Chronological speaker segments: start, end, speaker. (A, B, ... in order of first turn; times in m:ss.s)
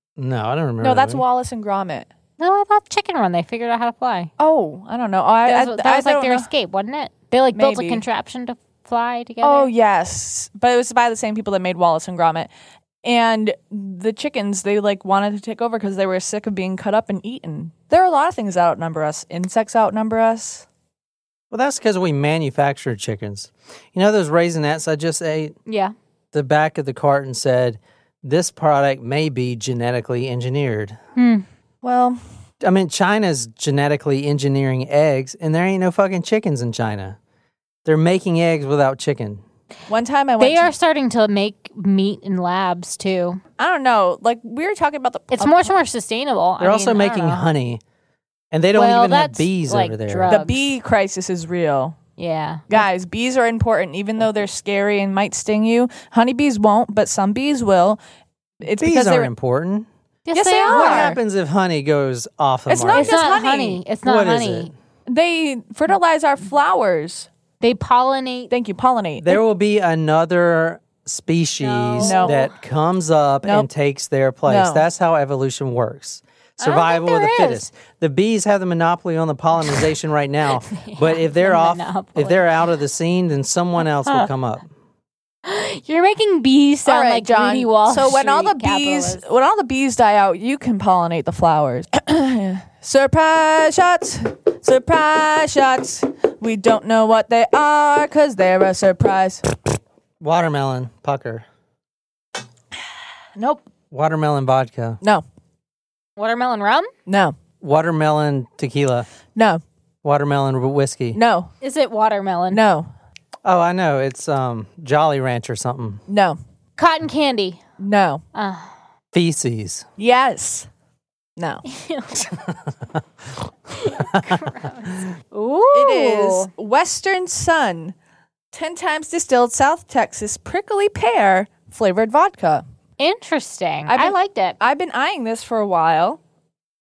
0:00.2-0:01.2 A
0:00.8-0:02.1 B
0:02.4-0:04.3 C
0:04.4-0:06.5 B
0:05.5-0:09.7 C
0:07.6-0:08.0 B
0:09.4-0:12.5 B
0:13.0-0:20.7 B
0:21.5-0:25.6 A
0:25.7-0:25.9 C
0:26.3-0:31.0 A
0:31.2-0:31.5 C
0:31.8-0:32.2 B
0:32.6-0:37.2 A
0:37.8-0:39.4 A
0:39.9-0:40.7 B
0:40.4-0:43.4 C
0:43.6-0:45.7 B
0:45.3-0:47.5 C
0:46.6-0:47.8 A
0:48.5-0:50.3 A
0:48.8-0:50.7 C
0:50.3-0:52.0 B
0:52.2-0:52.8 C
0:52.7-0:58.0 B
0:58.6-0:59.3 B
0:58.6-0:59.9 A
1:00.3-1:01.2 C
1:00.3-1:01.2 B
1:00.7-1:03.2 A
1:02.7-1:03.8 B
1:02.9-1:04.7 C
1:04.0-1:04.7 A
1:05.1-1:07.3 B
1:07.6-1:08.5 C
1:08.5-1:09.4 B
1:09.2-1:24.7 A
1:11.6-1:12.5 C
1:12.0-1:12.4 B
1:14.5-1:14.8 B
1:16.6-1:17.7 C
1:20.7-1:22.4 C
1:25.5-1:29.2 C
1:26.9-1:39.5 B
1:40.2-1:41.5 A
1:43.9-1:45.0 A
1:46.2-1:46.9 C
1:47.1-1:47.4 B
1:47.6-1:49.1 A
1:49.4-1:49.6 B
1:50.0-1:51.2 A
1:51.1-1:51.5 B
1:51.6-1:52.6 C
1:52.5-1:52.9 B
1:53.4-1:56.0 A
1:56.1-1:56.4 B
1:56.8-1:57.6 C
1:57.8-1:58.2 B
1:58.3-1:58.7 C
1:59.1-1:59.8 A
2:00.0-2:00.7 B
2:01.4-2:01.6 B
2:01.7-2:02.4 C
2:03.8-2:06.5 C
2:05.7-2:08.0 B
2:08.5-2:12.6 B
2:13.0-2:14.6 C
2:13.9-2:16.2 B